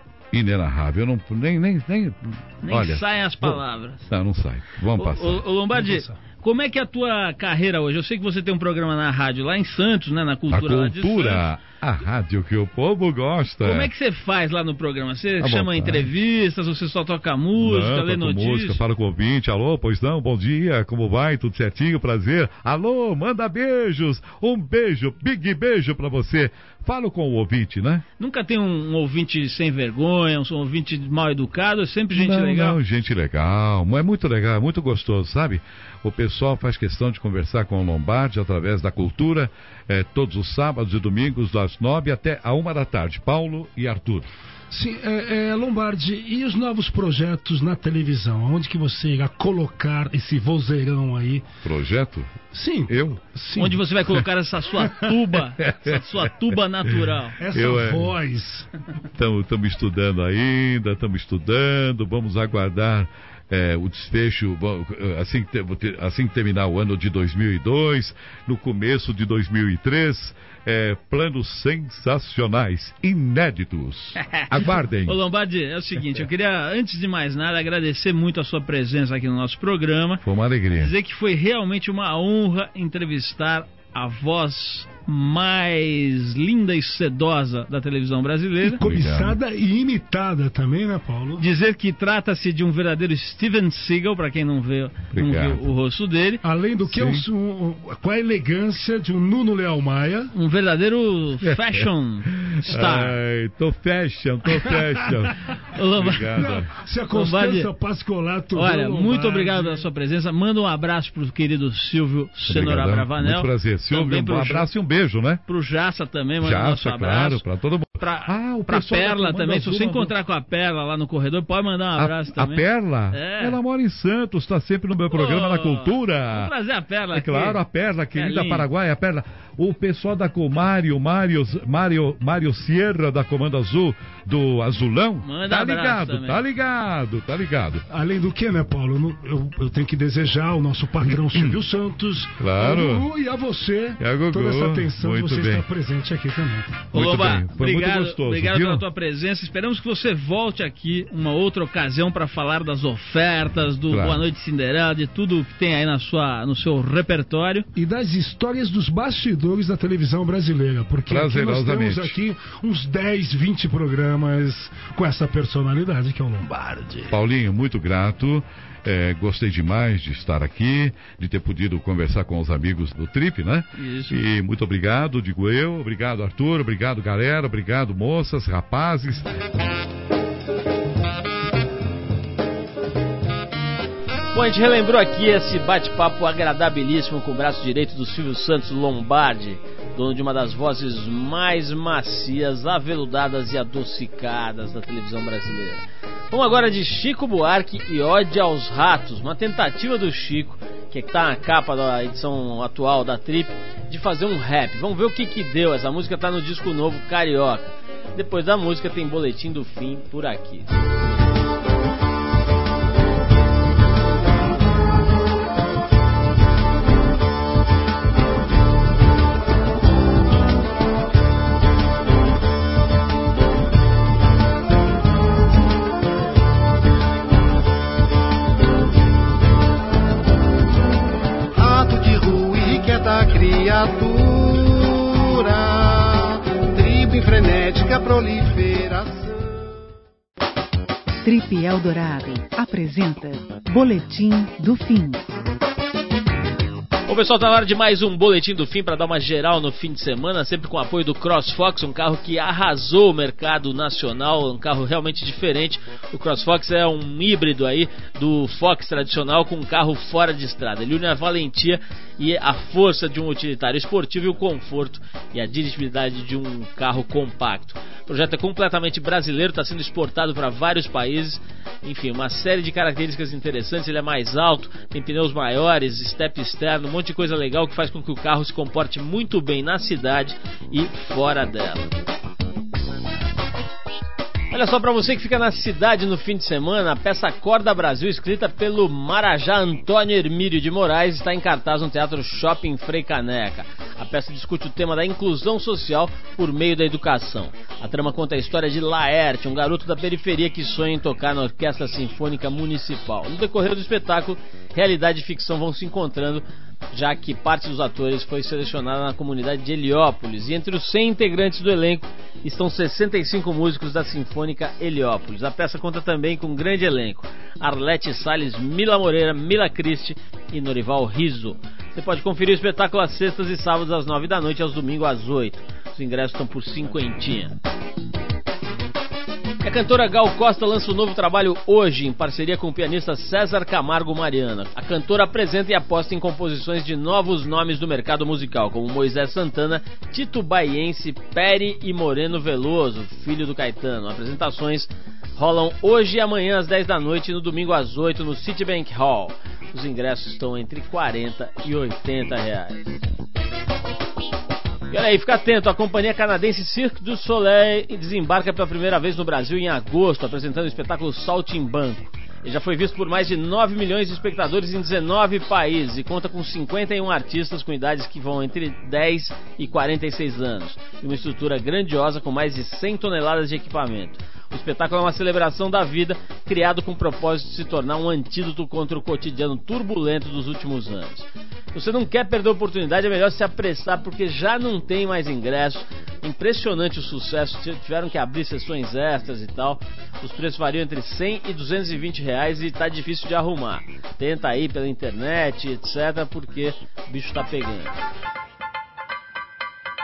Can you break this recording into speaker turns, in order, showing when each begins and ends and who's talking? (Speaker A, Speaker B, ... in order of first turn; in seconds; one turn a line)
Speaker A: 0.3-5.4
Speaker B: 2.6-4.1
Speaker B: 5.0-11.5
Speaker C: 5.7-6.2
Speaker A: 10.5-13.9
Speaker B: 13.6-18.8
Speaker A: 15.4-16.1
Speaker A: 17.6-28.1
Speaker B: 28.2-32.8
Speaker A: 32.1-44.3
Speaker C: 44.7-51.5
Speaker A: 51.6-53.2
Speaker C: 52.5-53.8
Speaker B: 53.6-57.4
Speaker A: 55.6-56.0
Speaker A: 57.0-58.1
Speaker C: 57.4-58.7
Speaker A: 59.1-75.2
Speaker B: 74.2-80.2
Speaker A: 80.2-80.9
Speaker B: 80.8-88.8
Speaker C: 88.6-91.4
Speaker A: 88.8-89.4
Speaker B: 91.4-96.4
Speaker A: 95.1-95.6
Speaker C: 96.4-100.3
Speaker A: 96.8-97.3
Speaker B: 100.3-103.2
Speaker A: 101.4-106.7
Speaker B: 105.7-106.4
Speaker C: 106.3-109.9
Speaker B: 107.1-107.7
Speaker B: 108.6-114.7
Speaker A: 112.5-115.4
Speaker B: 115.5-117.4
Speaker A: 116.4-120.1
Speaker B: 118.0-123.6
Speaker A: 122.0-126.5
Speaker B: 125.1-127.6
Speaker A: 127.1-137.8
Speaker B: 128.1-128.7
Speaker B: 135.2-136.4
Speaker C: 137.9-146.8
Speaker A: 141.3-141.6
Speaker A: 142.4-143.1
Speaker A: 144.0-145.7
Speaker A: 146.9-148.8
Speaker B: 146.9-157.7
Speaker A: 153.9-154.2
Speaker C: 157.8-167.0
Speaker A: 161.1-162.2
Speaker A: 167.1-179.3
Speaker B: 173.8-174.2
Speaker B: 184.3-210.7
Speaker D: 231.6-235.8
Speaker D: 236.8-239.2
Speaker E: 241.2-245.2
Speaker B: 247.1-281.9
Speaker B: 284.5-327.6
Speaker B: 329.6-352.8
Speaker B: 354.9-397.9